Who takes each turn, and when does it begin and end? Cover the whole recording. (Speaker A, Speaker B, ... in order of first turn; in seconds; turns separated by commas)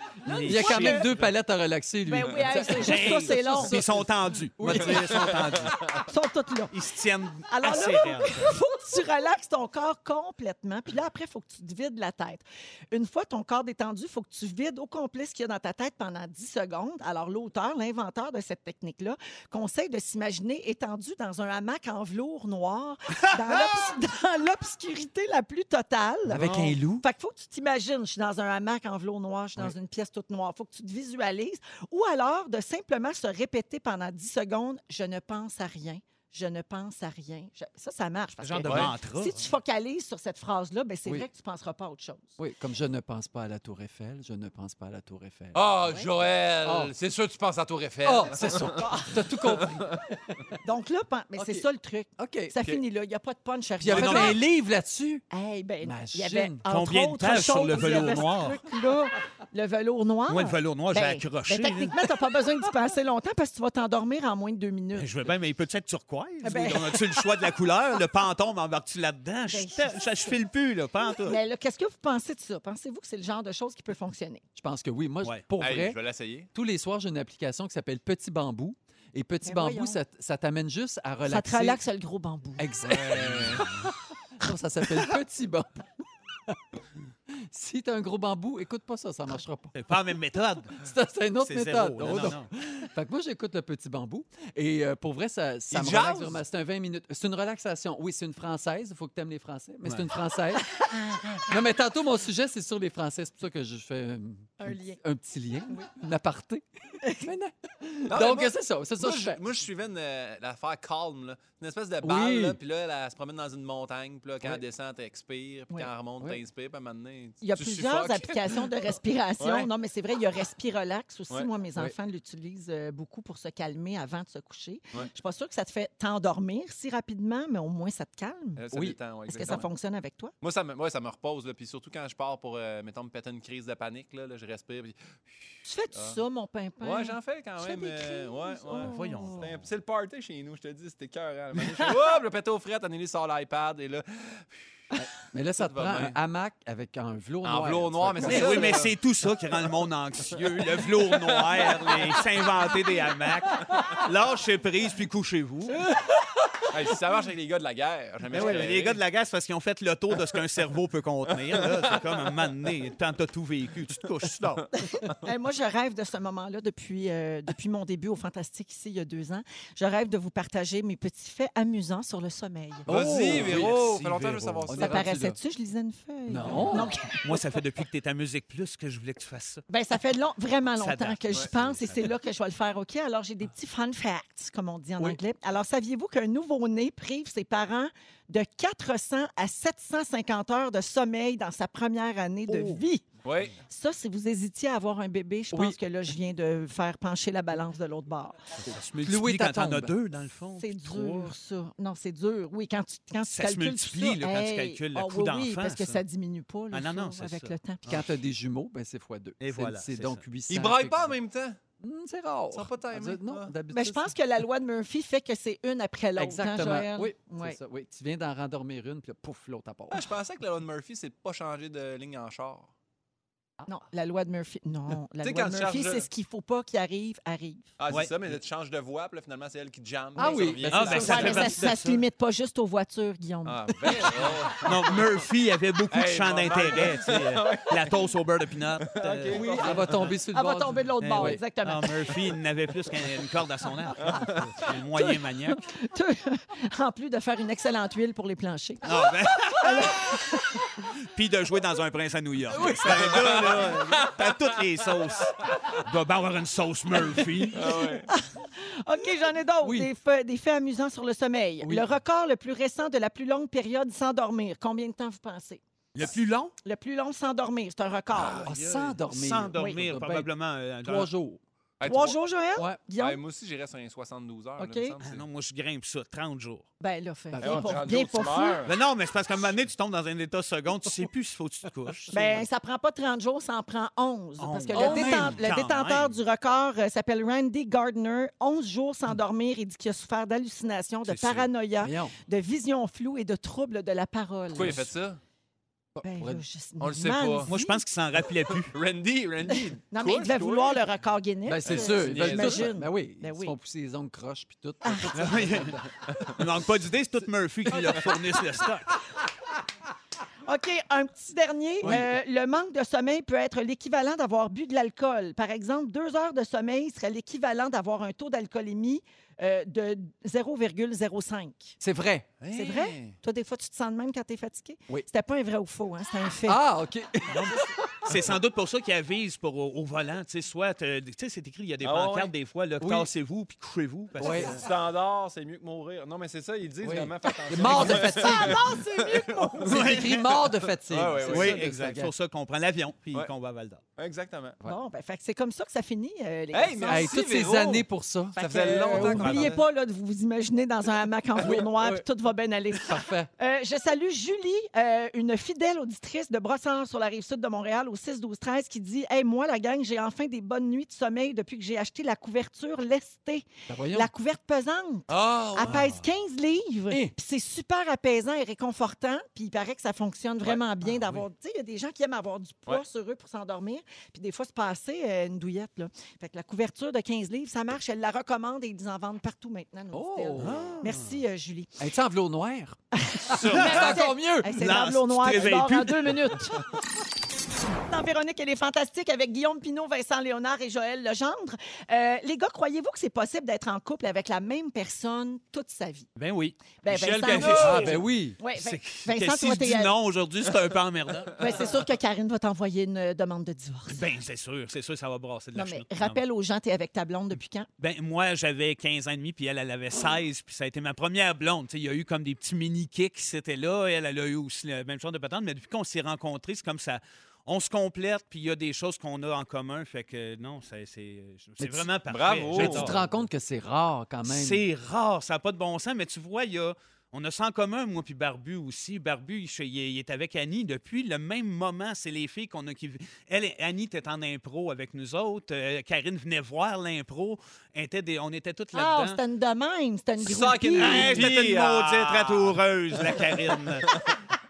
Speaker A: 0.2-1.3, Speaker B: 0.3-5.9, Speaker C: 0.5-1.1, Speaker C: 2.1-3.8, Speaker A: 2.6-6.0, Speaker D: 4.7-5.7, Speaker C: 6.1-6.7, Speaker A: 6.7-8.6, Speaker C: 7.5-42.4, Speaker B: 26.3-27.1, Speaker A: 26.4-26.8, Speaker A: 38.4-39.4, Speaker D: 38.7-38.9, Speaker B: 42.4-45.7, Speaker D: 45.5-50.0, Speaker B: 46.6-46.9, Speaker B: 48.0-50.6, Speaker C: 50.6-54.4, Speaker B: 51.4-51.7, Speaker B: 52.2-52.8, Speaker A: 53.8-54.4, Speaker B: 53.8-55.2, Speaker C: 55.3-65.1, Speaker B: 55.8-56.6, Speaker A: 56.6-58.6, Speaker A: 60.3-62.1, Speaker A: 65.0-71.4, Speaker C: 66.4-67.3, Speaker C: 69.5-70.1, Speaker C: 71.2-74.4, Speaker B: 74.6-76.0, Speaker D: 75.6-76.5, Speaker B: 76.5-81.8, Speaker C: 79.4-80.0, Speaker C: 81.3-83.8, Speaker B: 82.6-83.8, Speaker D: 82.9-83.7, Speaker B: 84.4-86.6, Speaker B: 87.3-89.8, Speaker A: 89.8-90.8, Speaker B: 90.8-109.4, Speaker A: 91.4-92.5, Speaker D: 95.7-96.4, Speaker C: 100.7-101.4, Speaker C: 104.6-105.0, Speaker D: 108.1-119.7, Speaker B: 112.0-112.6, Speaker C: 117.4-128.6, Speaker D: 128.6-129.7, Speaker B: 128.7-129.0, Speaker C: 129.3-130.3, Speaker D: 130.4-136.2, Speaker C: 135.7-139.5, Speaker D: 136.8-144.7, Speaker A: 138.7-139.6, Speaker B: 145.0-148.8, Speaker D: 145.6-146.2, Speaker D: 147.4-149.0, Speaker A: 148.2-155.8, Speaker D: 151.0-152.2, Speaker B: 155.9-156.1, Speaker D: 156.7-159.0, Speaker A: 158.3-164.7, Speaker D: 161.4-162.5, Speaker C: 165.1-172.9, Speaker B: 172.9-173.8, Speaker D: 172.9-175.1, Speaker A: 173.2-174.7, Speaker B: 174.7-175.4, Speaker C: 174.8-177.2, Speaker B: 176.3-176.9, Speaker A: 177.1-179.6, Speaker C: 179.7-193.1, Speaker A: 180.8-182.1, Speaker B: 192.5-192.8, Speaker D: 193.2-193.6, Speaker C: 193.7-198.4, Speaker B: 195.5-195.8, Speaker A: 198.7-201.3, Speaker B: 199.0-199.9, Speaker C: 200.6-208.0, Speaker A: 203.3-206.0, Speaker A: 206.7-207.6, Speaker B: 207.9-211.2, Speaker A: 209.4-210.2, Speaker D: 210.5-211.6, Speaker B: 211.8-214.2, Speaker D: 212.5-213.5, Speaker C: 213.7-217.6, Speaker B: 216.2-220.1, Speaker D: 219.9-222.7, Speaker C: 223.7-227.7, Speaker D: 225.2-226.1, Speaker D: 227.8-231.4, Speaker A: 227.9-228.4, Speaker B: 230.2-231.8, Speaker A: 230.7-232.0, Speaker C: 230.9-234.2, Speaker D: 233.4-235.1, Speaker A: 234.6-239.7, Speaker D: 235.9-238.0, Speaker D: 238.8-240.2, Speaker B: 239.3-241.4, Speaker C: 240.3-242.1, Speaker A: 241.0-245.6, Speaker D: 244.0-244.6, Speaker C: 244.9-250.2, Speaker A: 248.8-250.2, Speaker A: 251.0-257.9, Speaker B: 252.5-253.6, Speaker D: 252.9-255.1, Speaker D: 257.5-258.1, Speaker C: 258.1-265.6, Speaker B: 259.6-259.9, Speaker B: 261.6-261.9, Speaker A: 265.9-266.5, Speaker C: 266.6-268.5, Speaker D: 268.1-269.0, Speaker B: 268.2-270.3, Speaker A: 269.1-271.1, Speaker C: 269.6-269.8, Speaker B: 270.8-271.4, Speaker D: 271.8-272.2, Speaker C: 271.8-273.2, Speaker D: 273.0-275.2, Speaker C: 274.6-274.9, Speaker A: 275.0-276.7, Speaker C: 276.8-278.6, Speaker B: 277.3-277.8, Speaker D: 277.4-278.7, Speaker A: 278.6-282.2, Speaker C: 282.1-294.8, Speaker A: 284.4-286.2, Speaker B: 284.7-285.5, Speaker D: 291.1-291.5, Speaker B: 291.8-292.1, Speaker D: 294.5-295.2, Speaker B: 295.9-296.4, Speaker C: 296.0-297.8, Speaker D: 296.8-297.5, Speaker A: 297.5-298.8, Speaker D: 298.7-300.8, Speaker C: 299.9-303.6, Speaker B: 301.5-305.8, Speaker D: 301.6-302.7, Speaker C: 304.8-305.1, Speaker A: 305.1-308.9, Speaker D: 306.1-306.4, Speaker D: 307.8-308.1, Speaker C: 310.5-321.8, Speaker B: 311.8-312.1, Speaker B: 321.8-322.3, Speaker D: 322.4-323.1, Speaker C: 322.5-326.6, Speaker B: 326.5-327.9, Speaker A: 327.3-334.6, Speaker D: 331.8-332.3, Speaker B: 332.8-333.1, Speaker B: 334.2-334.6, Speaker D: 334.4-339.7, Speaker B: 336.8-338.6, Speaker C: 337.5-340.0, Speaker B: 339.6-342.1, Speaker A: 339.7-340.3, Speaker D: 340.6-341.7, Speaker A: 341.3-343.8, Speaker D: 344.0-344.6, Speaker C: 344.6-347.2, Speaker D: 346.5-349.7, Speaker B: 346.9-349.5, Speaker C: 348.3-381.8, Speaker B: 351.4-352.1, Speaker B: 352.7-353.3, Speaker B: 363.7-364.1, Speaker D: 365.1-366.0, Speaker B: 379.9-380.6, Speaker A: 380.4-381.2, Speaker B: 381.8-384.6, Speaker C: 382.9-386.6, Speaker A: 383.5-384.0, Speaker A: 384.6-386.4, Speaker C: 387.9-396.1, Speaker A: 396.2-398.0, Speaker C: 396.8-399.9, Speaker D: 396.9-398.0, Speaker B: 397.5-398.4, Speaker A: 398.6-401.7, Speaker C: 401.4-404.0, Speaker A: 403.9-406.2, Speaker C: 405.6-407.7, Speaker A: 407.8-423.1, Speaker B: 421.6-421.9, Speaker D: 422.1-422.9, Speaker B: 422.5-424.6, Speaker A: 424.2-439.2, Speaker C: 438.7-441.3, Speaker D: 440.2-444.2, Speaker A: 440.8-444.1